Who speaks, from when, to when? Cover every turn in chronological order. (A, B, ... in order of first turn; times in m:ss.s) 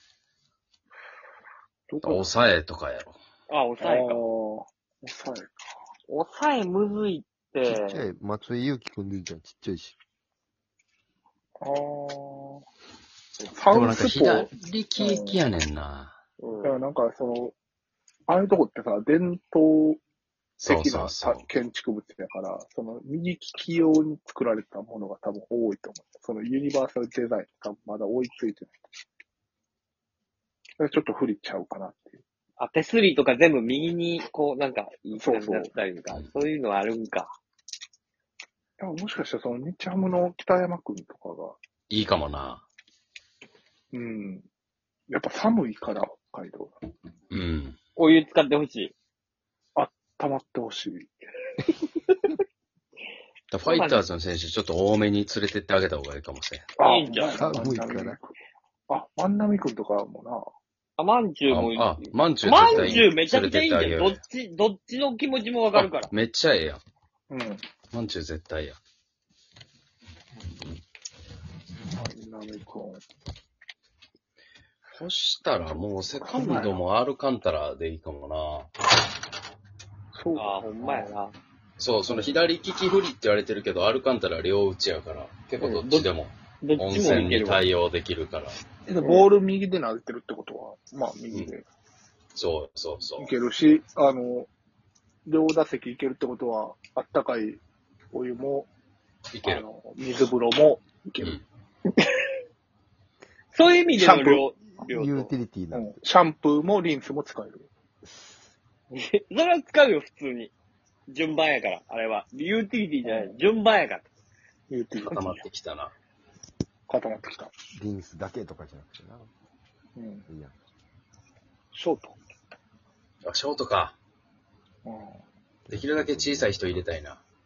0:01.9-0:02.3 A
0:02.0-0:03.2 B
0:03.5-0:04.2 C
0:03.8-0:05.6 A
0:06.1-0:08.0 C
0:07.6-0:10.0 D
0:11.6-0:12.6 A
0:13.4-0:15.4 A
0:13.6-0:16.2 B
0:16.4-0:16.8 C
0:16.6-0:17.5 A
0:18.3-0:20.0 A
0:20.6-0:21.5 B
0:20.6-0:28.7 A
0:30.8-0:32.2 A
0:32.6-0:37.3 C
0:35.1-0:35.7 A
0:38.8-0:41.6 A
0:41.9-0:42.6 B
0:43.9-0:44.4 A
0:45.1-0:46.7 A
0:47.3-0:47.8 B
0:48.0-0:48.9 C
0:49.8-0:51.1 A
0:53.5-0:56.7 B
0:53.6-0:54.0 C
0:56.8-0:58.3 A
0:56.8-0:57.5 C
0:57.4-0:58.2 D
0:58.9-1:00.4 A
1:01.0-1:06.1 C
1:01.5-1:04.2 B
1:05.7-1:06.8 B
1:07.3-1:07.6 A
1:07.9-1:08.8 B
1:11.9-1:13.0 A
1:14.9-1:18.7 B
1:16.2-1:16.8 A
1:20.1-1:21.1 A
1:20.3-1:21.3 C
1:21.8-1:28.6 B
1:22.1-1:22.4 A
1:25.6-1:26.1 C
1:26.6-1:27.6 C
1:28.8-1:31.6 A
1:29.0-1:29.3 C
1:32.3-1:33.3 B
1:33.2-1:34.5 A
1:35.2-1:37.6 A
1:38.1-1:38.7 A
1:39.3-1:39.6 B
1:39.4-1:41.4 A
1:43.5-1:45.3 C
1:43.9-1:44.4 A
1:44.8-1:46.0 D
1:45.7-1:47.7 A
1:48.9-1:50.5 C
1:51.1-1:54.0 C
1:53.0-1:53.4 A
1:54.7-1:55.4 A
1:55.0-1:55.9 B
1:56.9-1:57.5 A
1:57.7-1:59.3 D
2:00.0-2:00.2 A
2:00.3-2:00.5 D
2:01.7-2:02.2 A
2:03.2-2:04.0 B
2:04.8-2:05.2 A
2:05.7-2:06.8 D
2:05.7-2:07.2 B